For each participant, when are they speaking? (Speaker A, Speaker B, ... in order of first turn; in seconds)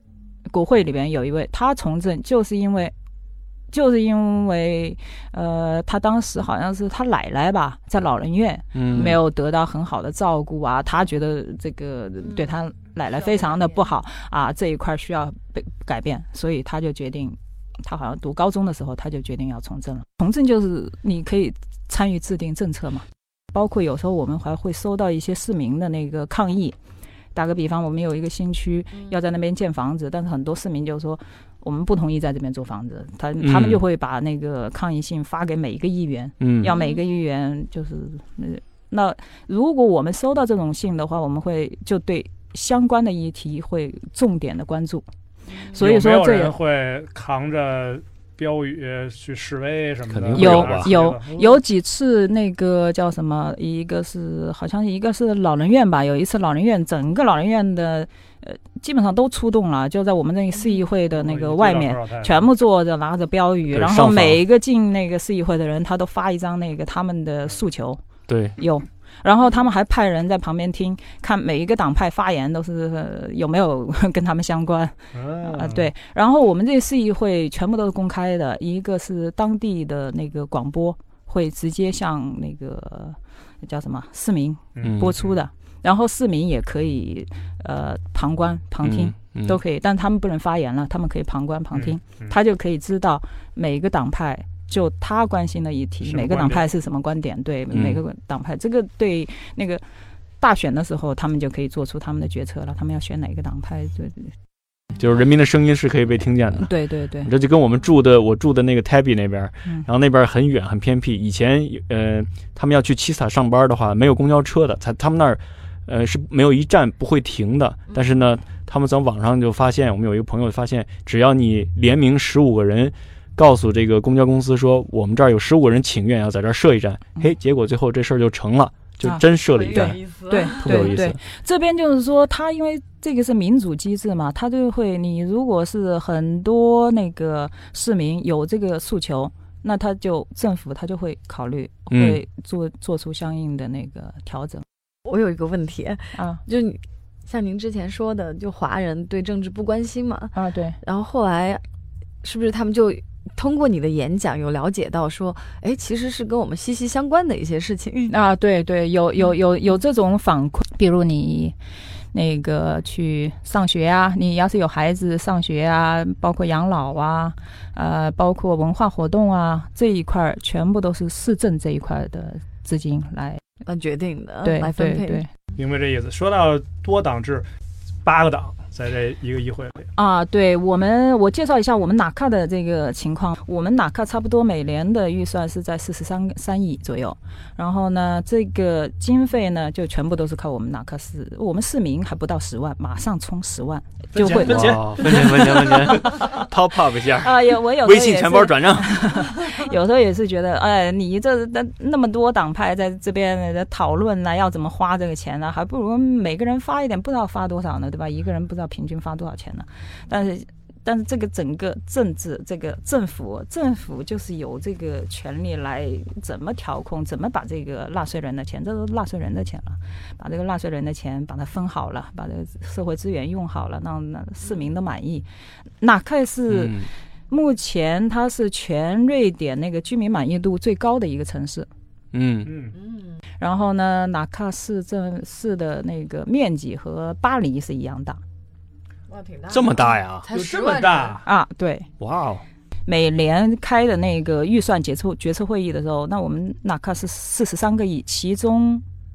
Speaker A: 0.5-2.9, 3.7-26.8, 27.4-45.1, 45.8-46.5, 50.3-68.0, 68.6-99.8, 100.4-104.3, 106.6-107.3, 129.0-144.7, 146.2-146.4, 150.3-150.8, 158.1-161.6, 162.1-173.4, 174.4-175.3, 180.0-196.4, 197.2-225.2, 225.8-231.7, 233.4-238.2, 241.2-241.9, 242.9-248.8
Speaker B: 8.7-9.2, 33.4-33.8, 36.4-36.7, 50.1-50.9, 63.7-64.4, 68.3-68.6, 84.8-85.1, 88.8-89.6, 97.7-98.0, 105.0-106.7, 107.2-131.2, 141.9-142.2, 194.3-199.2, 226.5-226.9, 232.1-232.5, 239.5-240.3, 242.0-242.4
Speaker C: 12.2-13.9, 36.7-37.0, 45.5-45.8, 129.3-131.0, 145.1-151.6, 152.2-158.2, 173.7-175.2, 232.7-233.2, 239.1-241.2
Speaker D: 45.7-51.6, 61.0-62.5, 75.1-75.9, 84.8-85.3, 91.7-92.3, 96.0-96.7, 175.6-177.5, 178.0-179.9, 194.1-196.1, 232.4-232.8, 240.3-241.3